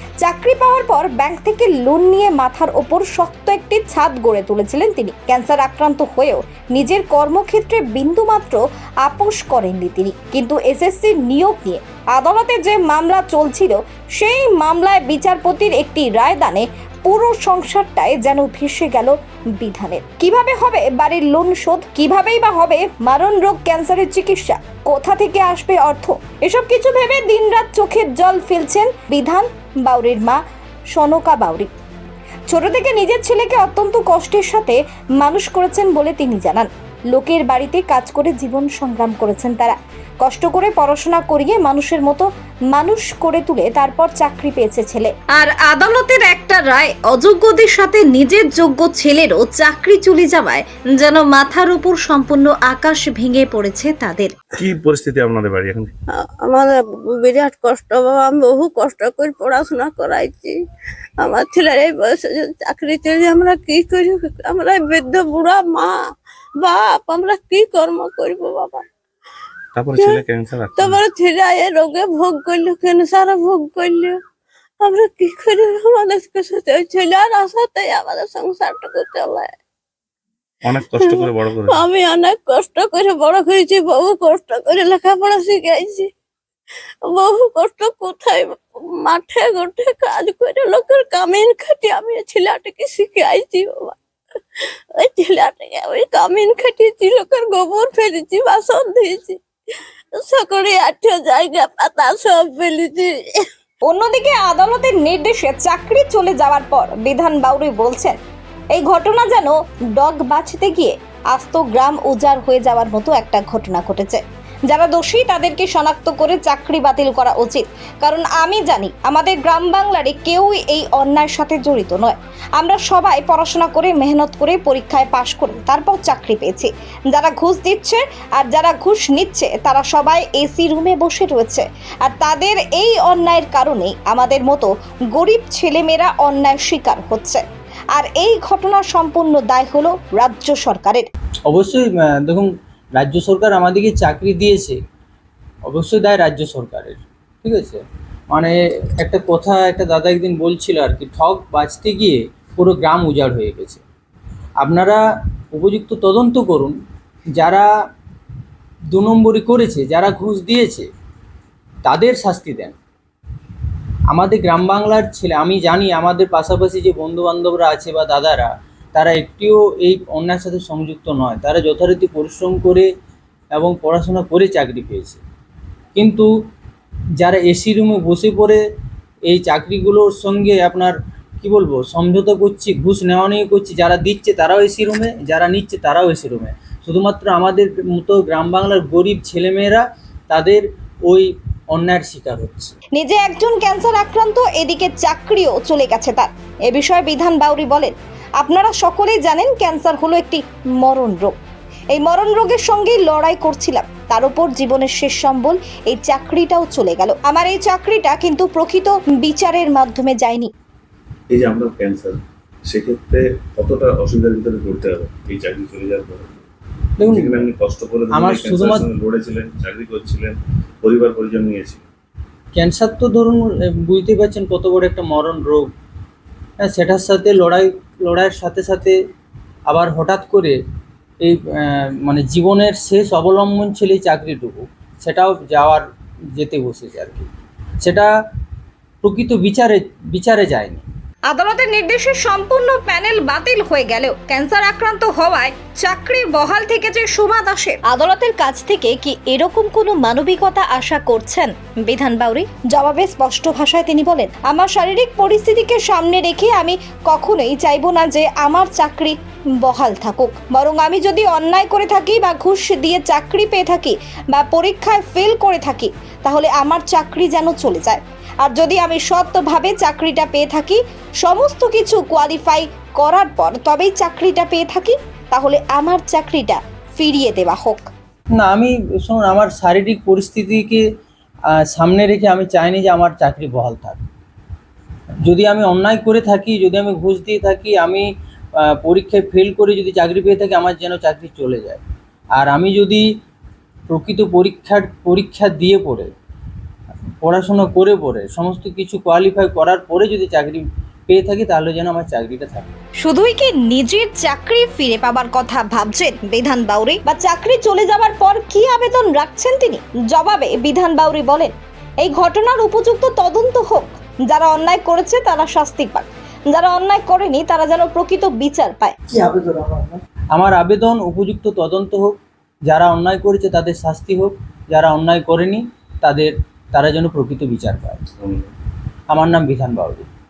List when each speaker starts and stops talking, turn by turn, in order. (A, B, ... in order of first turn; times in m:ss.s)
0:00.2-0:30.4 A
0:30.9-0:31.7 A
0:32.5-0:54.3 A
0:54.6-0:55.9 B
0:56.1-1:00.6 C
1:01.2-1:06.1 C
1:06.6-1:08.8 C
1:09.7-1:11.0 B
1:09.9-1:14.2 C
1:14.8-1:19.6 C
1:20.6-1:21.9 B
1:20.9-1:26.1 C
1:27.0-1:34.0 C
1:35.0-1:39.4 C
1:40.1-1:43.4 C
1:43.8-1:48.2 A
1:48.7-2:17.4 A
2:17.9-2:21.0 A
2:21.5-2:24.8 D
2:25.7-2:33.8 D
2:34.6-2:36.8 D
2:37.3-2:37.7 D
2:38.9-2:40.9 D
2:41.8-2:42.7 D
2:44.1-2:52.9 D
2:53.5-2:55.2 D
2:55.9-2:56.3 D
2:57.2-2:58.6 D
2:59.3-3:12.7 D
3:12.9-3:21.3 A
3:21.9-3:30.5 A
3:31.3-3:36.3 B
3:37.0-3:37.5 D
3:37.0-3:41.8 B
3:38.1-3:38.9 D
3:42.5-3:45.7 D
3:46.6-3:49.0 D
3:49.7-3:50.6 D
3:51.2-3:57.3 D
3:57.8-3:58.1 D
3:59.0-4:00.8 D
4:01.3-4:37.9 A
4:38.4-4:40.8 D
4:41.5-4:44.0 D
4:45.2-4:48.1 D
4:48.6-4:51.8 D
4:52.3-4:53.0 D
4:53.9-4:56.1 D
4:57.2-5:02.7 D
5:03.0-5:19.0 A
5:19.1-5:28.0 D
5:28.2-5:28.5 B
5:29.1-5:30.1 D